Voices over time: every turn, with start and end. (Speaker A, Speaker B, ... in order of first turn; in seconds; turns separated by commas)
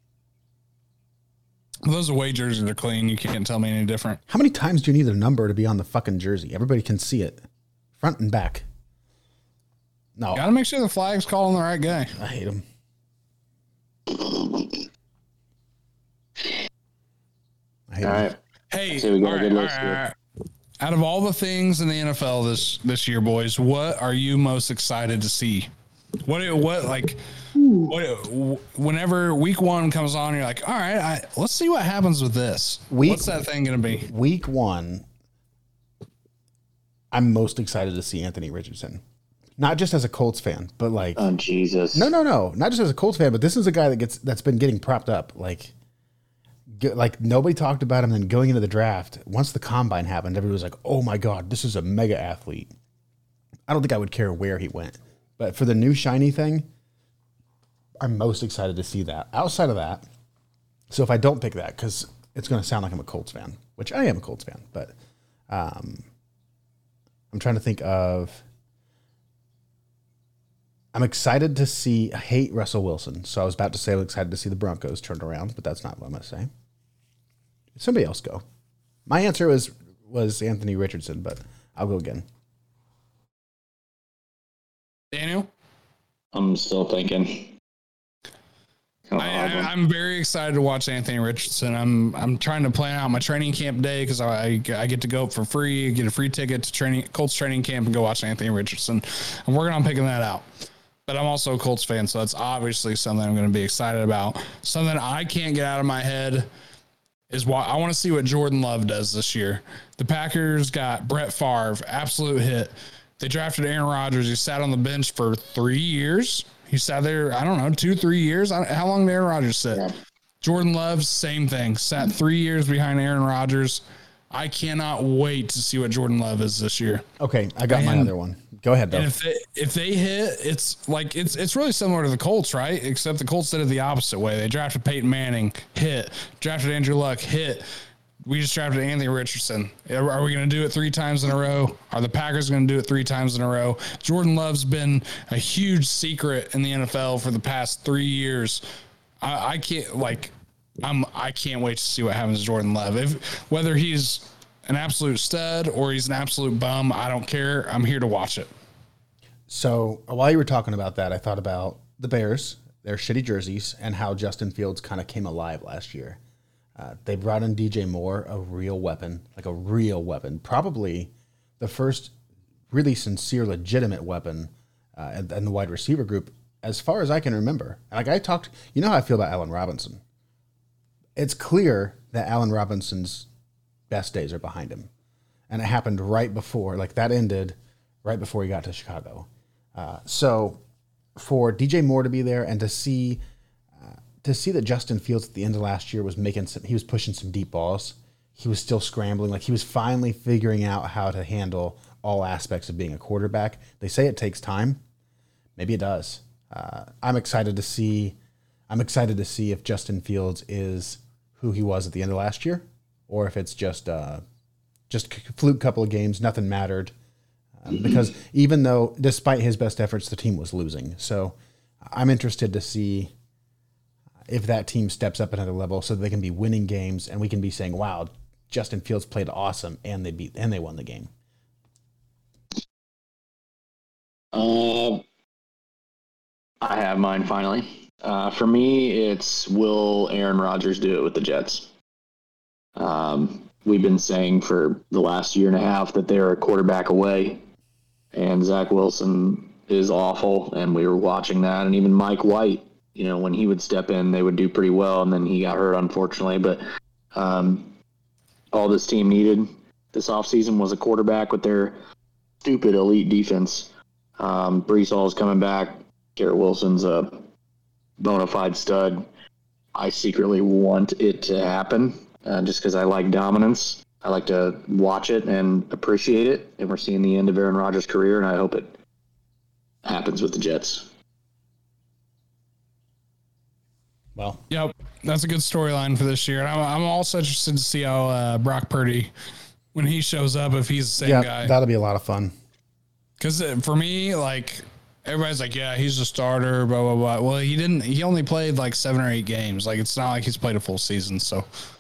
Speaker A: 1.9-4.2, Speaker B: 4.3-7.4, Speaker B: 8.0-8.6, Speaker B: 10.2-10.4, Speaker A: 10.3-12.2, Speaker B: 12.1-12.6, Speaker C: 14.1-14.8, Speaker B: 17.9-18.3, Speaker C: 18.0-18.4, Speaker A: 18.7-20.1, Speaker C: 18.9-20.0, Speaker A: 20.8-25.7, Speaker A: 26.2-27.2, Speaker C: 27.6-27.9, Speaker A: 27.9-34.1, Speaker B: 32.9-33.3, Speaker B: 34.1-35.0, Speaker B: 37.1-39.0, Speaker B: 39.6-41.3, Speaker C: 41.2-42.1, Speaker B: 41.9-45.7, Speaker B: 46.8-52.7, Speaker B: 53.7-56.7, Speaker B: 58.0-60.0, Speaker B: 60.9-64.9, Speaker B: 65.5-66.0, Speaker B: 67.3-68.4, Speaker B: 70.9-76.5, Speaker B: 77.8-78.4, Speaker B: 79.1-82.2, Speaker A: 85.1-85.5, Speaker C: 86.3-87.5, Speaker C: 89.1-89.7, Speaker A: 89.2-100.5, Speaker A: 101.1-106.5, Speaker A: 107.3-119.9, Speaker A: 120.4-127.0, Speaker B: 127.2-129.1, Speaker A: 127.7-128.1, Speaker A: 128.9-137.6, Speaker A: 138.2-148.6, Speaker A: 149.2-158.5, Speaker B: 159.5-166.2, Speaker B: 166.8-172.1, Speaker B: 172.7-180.0, Speaker B: 181.2-183.3, Speaker B: 183.9-184.9, Speaker B: 185.5-190.6, Speaker B: 191.2-193.2, Speaker B: 193.8-204.8, Speaker B: 205.6-208.2, Speaker B: 208.7-214.2, Speaker B: 214.9-216.9, Speaker B: 217.6-221.4, Speaker B: 221.9-223.1, Speaker B: 224.3-231.1, Speaker C: 234.3-235.0, Speaker C: 236.6-241.7, Speaker C: 242.8-247.4, Speaker C: 248.1-256.6, Speaker C: 257.1-257.8, Speaker C: 258.5-261.8, Speaker C: 262.4-267.3, Speaker C: 268.0-269.0, Speaker C: 269.7-278.8, Speaker C: 279.8-280.9, Speaker B: 284.1-284.4, Speaker A: 284.5-289.1, Speaker A: 289.7-291.6, Speaker B: 291.0-292.3, Speaker A: 293.2-301.4